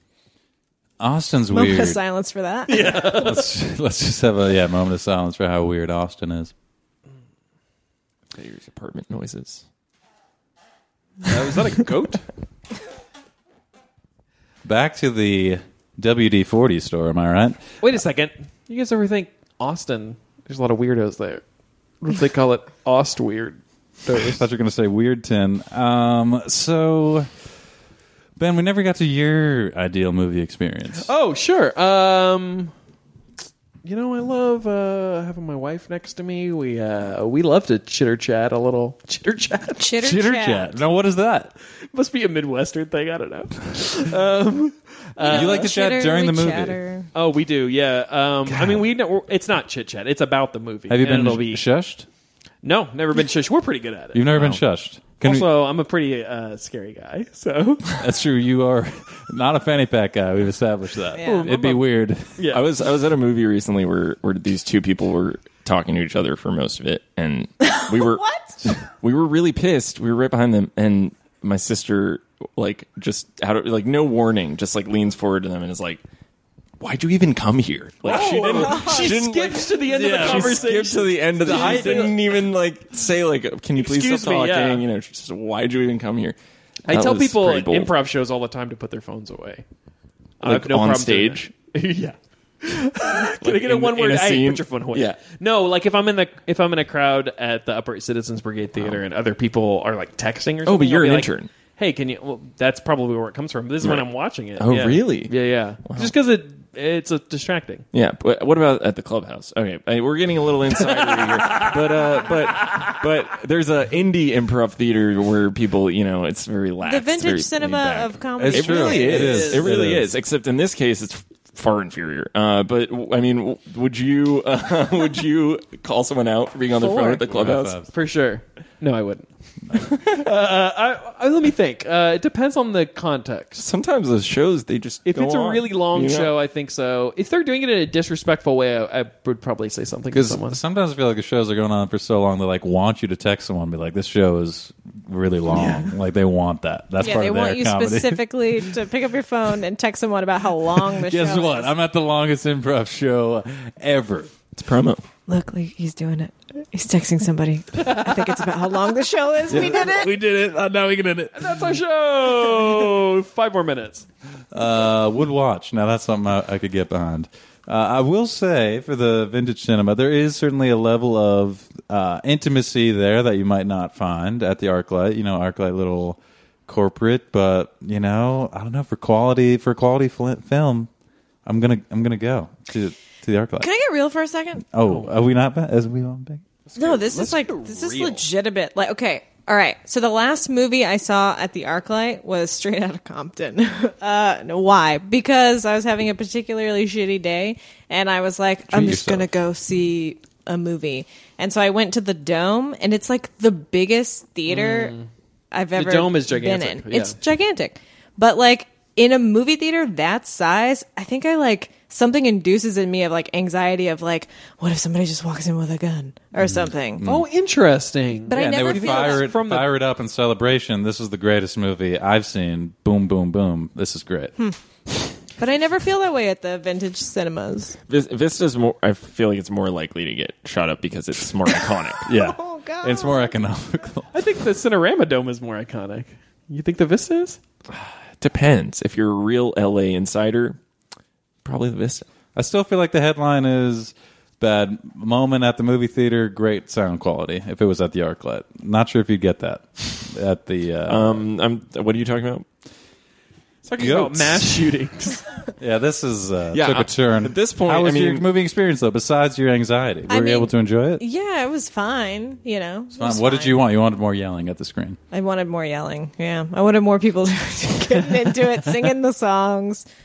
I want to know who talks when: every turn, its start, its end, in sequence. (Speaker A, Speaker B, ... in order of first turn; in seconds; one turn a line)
Speaker A: 1.0-2.0
Speaker B: 1.5-3.2
Speaker C: 2.7-3.5
Speaker A: 3.1-6.5
Speaker D: 8.3-9.6
Speaker C: 11.2-12.2
Speaker A: 14.6-17.6
Speaker C: 17.8-21.4
Speaker C: 22.0-24.4
Speaker A: 24.2-27.3
Speaker A: 28.4-31.1
Speaker C: 31.0-32.7
Speaker C: 33.8-39.9
Speaker B: 39.8-40.8
Speaker A: 40.0-41.5
Speaker C: 41.9-45.7
Speaker B: 45.2-47.1
Speaker A: 45.2-46.8
Speaker C: 47.1-51.6
Speaker A: 48.5-48.8
Speaker A: 50.9-52.0
Speaker C: 52.6-54.6
Speaker A: 54.1-55.5
Speaker C: 55.2-58.0
Speaker A: 58.0-62.4
Speaker B: 61.1-61.5
Speaker C: 61.2-61.8
Speaker C: 62.4-62.6
Speaker D: 62.5-76.0
Speaker B: 67.6-68.5
Speaker D: 76.8-86.3
Speaker C: 78.0-82.2
Speaker B: 78.5-79.1
Speaker A: 79.8-80.8
Speaker A: 81.4-82.2
Speaker C: 83.8-84.8
Speaker C: 86.9-89.6
Speaker D: 86.9-87.9
Speaker C: 90.4-107.8
Speaker D: 90.4-91.5
Speaker D: 93.4-95.2
Speaker D: 98.8-99.0
Speaker D: 100.6-101.5
Speaker D: 103.8-106.1
Speaker D: 107.9-127.8
Speaker C: 110.8-111.8
Speaker B: 116.8-119.4
Speaker A: 118.4-120.1
Speaker C: 118.7-119.8
Speaker B: 126.7-127.2
Speaker A: 127.2-127.9
Speaker C: 127.9-133.6
Speaker D: 133.6-136.3
Speaker C: 135.1-140.6
Speaker A: 140.1-148.6
Speaker D: 145.5-145.9
Speaker B: 147.0-151.7
Speaker A: 150.9-154.3
Speaker D: 154.6-155.0
Speaker B: 155.3-160.1
Speaker C: 157.8-158.3
Speaker A: 159.5-161.6
Speaker C: 161.3-164.1
Speaker A: 164.5-180.9
Speaker A: 181.4-183.7
Speaker B: 183.6-184.6
Speaker A: 184.7-186.4
Speaker C: 184.8-185.1
Speaker C: 186.7-188.2
Speaker B: 186.8-204.9
Speaker A: 198.7-199.3
Speaker C: 204.5-205.1
Speaker B: 205.5-217.0
Speaker C: 205.7-207.2
Speaker A: 216.4-217.3
Speaker C: 217.0-219.7
Speaker B: 218.3-219.3
Speaker A: 218.3-224.3
Speaker B: 225.4-227.8
Speaker D: 227.9-232.1
Speaker B: 232.1-233.3
Speaker A: 232.1-234.1
Speaker C: 234.1-237.4
Speaker D: 237.7-240.6
Speaker D: 241.4-242.0
Speaker A: 242.3-251.2
Speaker D: 250.9-252.4
Speaker C: 253.7-255.2
Speaker A: 253.8-254.7
Speaker A: 255.6-261.0
Speaker D: 256.5-258.2
Speaker B: 260.1-263.6
Speaker A: 262.9-265.0
Speaker B: 265.1-269.9